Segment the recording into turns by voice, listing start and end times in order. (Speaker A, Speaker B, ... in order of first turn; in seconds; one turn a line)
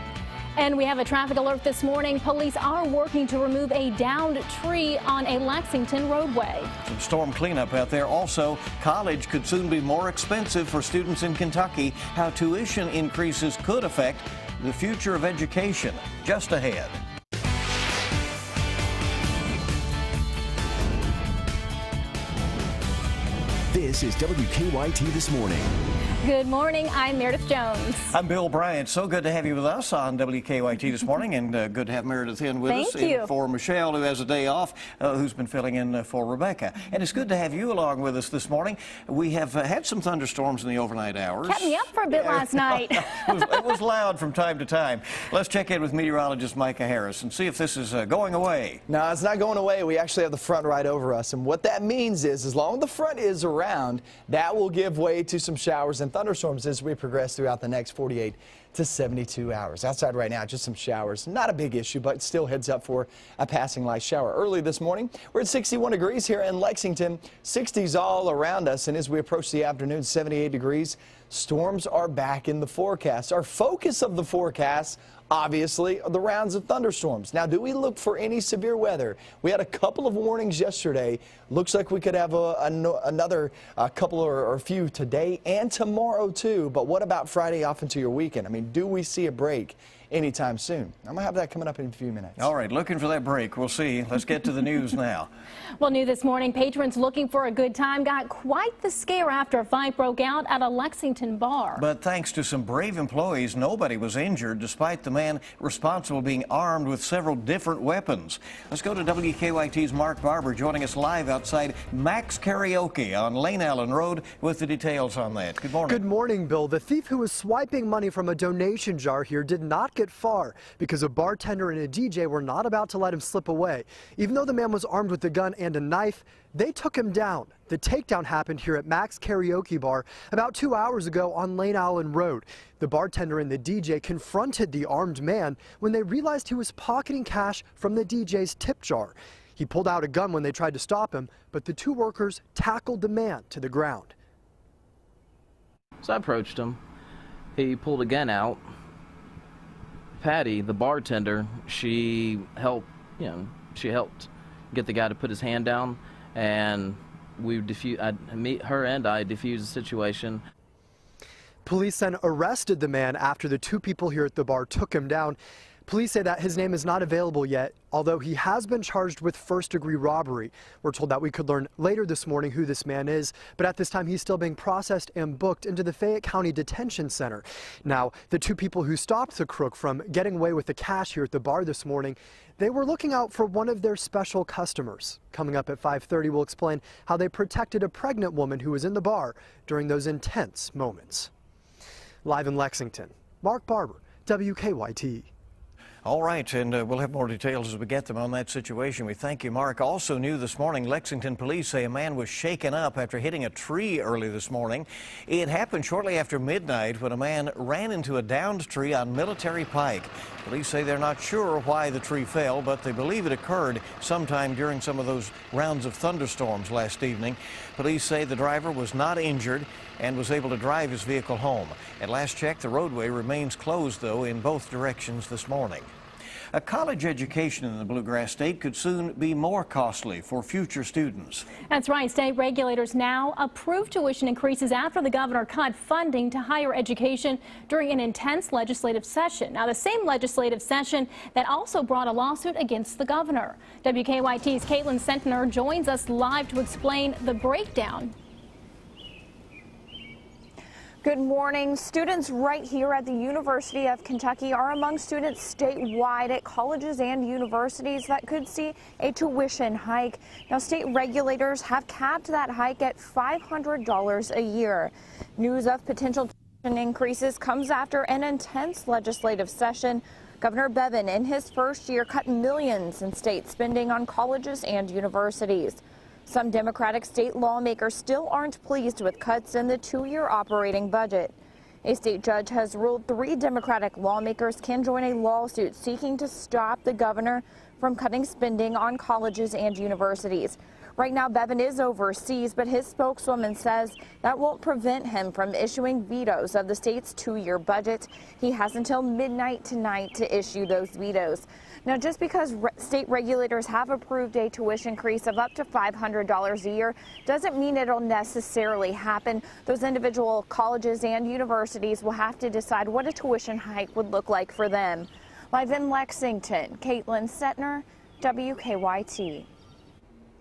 Speaker A: 0.6-6.7
Speaker B: 6.8-17.0
Speaker C: 23.7-25.7
Speaker A: 26.2-28.2
Speaker B: 28.1-48.8
Speaker A: 32.7-33.3
Speaker A: 41.4-43.8
Speaker D: 48.9-92.5
Speaker B: 92.4-95.3
Speaker A: 95.8-101.8
Speaker B: 101.8-116.0
Speaker E: 115.9-144.1
Speaker F: 146.0-146.8
Speaker F: 147.6-148.6
Speaker F: 150.2-160.4
Speaker E: 161.7-191.3
Speaker E: 192.2-195.3
Speaker B: 196.0-225.9
Speaker B: 226.5-231.4
Speaker A: 231.7-248.1
Speaker G: 251.0-281.3
Speaker G: 281.9-319.5